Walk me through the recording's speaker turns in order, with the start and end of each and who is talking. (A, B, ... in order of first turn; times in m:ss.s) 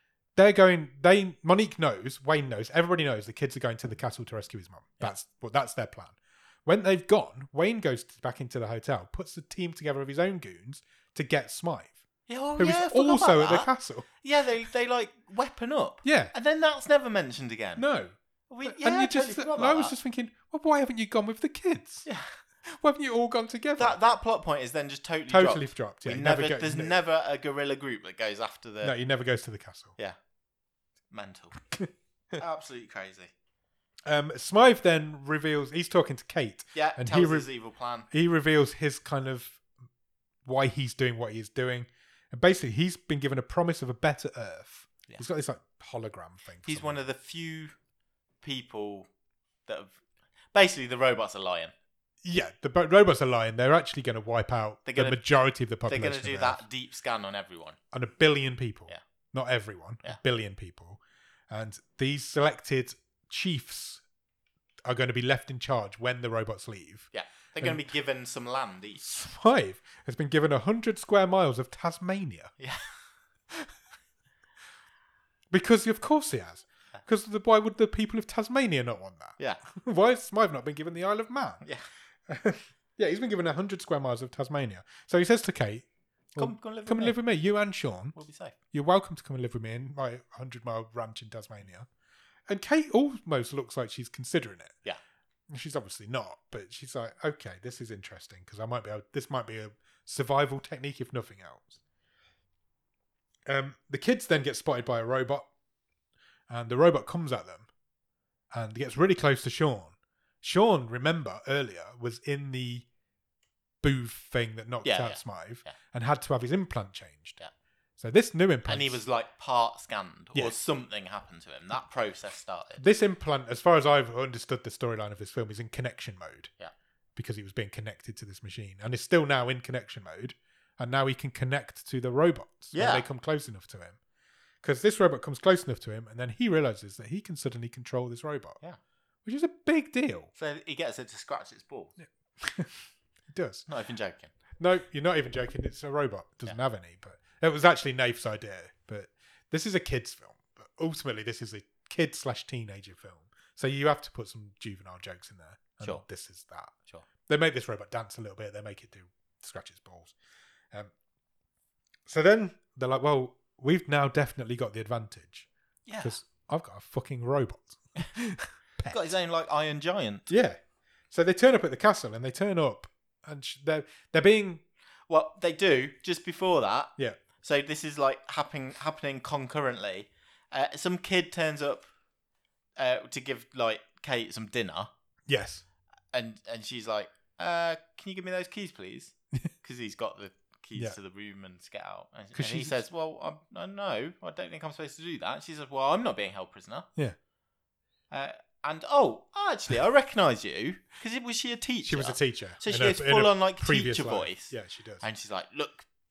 0:00.4-0:12.0 A
0:12.3-0:13.7 B
0:12.6-0:14.0 A
0:14.2-0:17.8 B
0:16.0-0:16.3 A
0:17.8-0:22.0 A
0:18.5-0:19.9 B
0:22.0-0:22.4 B
0:22.6-0:24.0 A
0:23.8-0:28.9 B
0:25.3-0:27.0 A
0:28.8-0:30.0 A
0:31.1-0:31.6 B
0:31.7-0:32.4 A
0:32.4-0:33.3 B
0:34.0-0:37.5 A
0:36.7-0:38.1 B
0:38.1-0:39.6 A
0:40.4-0:47.0 A
0:46.6-0:47.7 B
0:48.4-0:49.1 B
0:49.6-0:50.0 B
0:50.5-0:51.7 B
0:52.2-0:56.6 A
0:54.9-0:55.2 B
0:55.9-0:57.8 B
0:57.9-1:04.0 A
1:04.8-1:07.1 A
1:07.1-1:09.0 B
1:09.0-1:12.5 A
1:12.6-1:12.9 B
1:15.5-1:21.6 A
1:22.3-1:28.2 A
1:26.4-1:27.2 B
1:28.1-1:28.5 B
1:28.7-1:31.9 A
1:32.5-1:34.8 A
1:35.5-1:41.8 A
1:43.5-1:45.5 A
1:46.5-1:47.7 A
1:48.5-1:52.8 A
1:53.8-1:57.4 A
1:54.8-1:55.8 B
1:58.0-1:59.0 A
1:58.7-2:02.8 B
2:02.8-2:06.5 A
2:07.2-2:14.0 A
2:12.7-2:13.0 B
2:14.6-2:18.6 A
2:19.2-2:20.3 A
2:20.4-2:21.9 B
2:22.4-2:23.7 A
2:23.7-2:24.3 B
2:24.6-2:36.7 A
2:37.3-2:40.1 A
2:42.1-2:45.5 A
2:45.9-2:46.2 B
2:46.0-2:49.1 A
2:48.9-2:50.3 B
2:50.3-2:50.6 A
2:51.1-2:54.6 A
2:55.1-3:01.9 B
3:02.8-3:04.9 B
3:05.3-3:05.6 A
3:06.1-3:16.9 B
3:12.4-3:12.8 A
3:18.1-3:25.9 B
3:21.8-3:25.0 A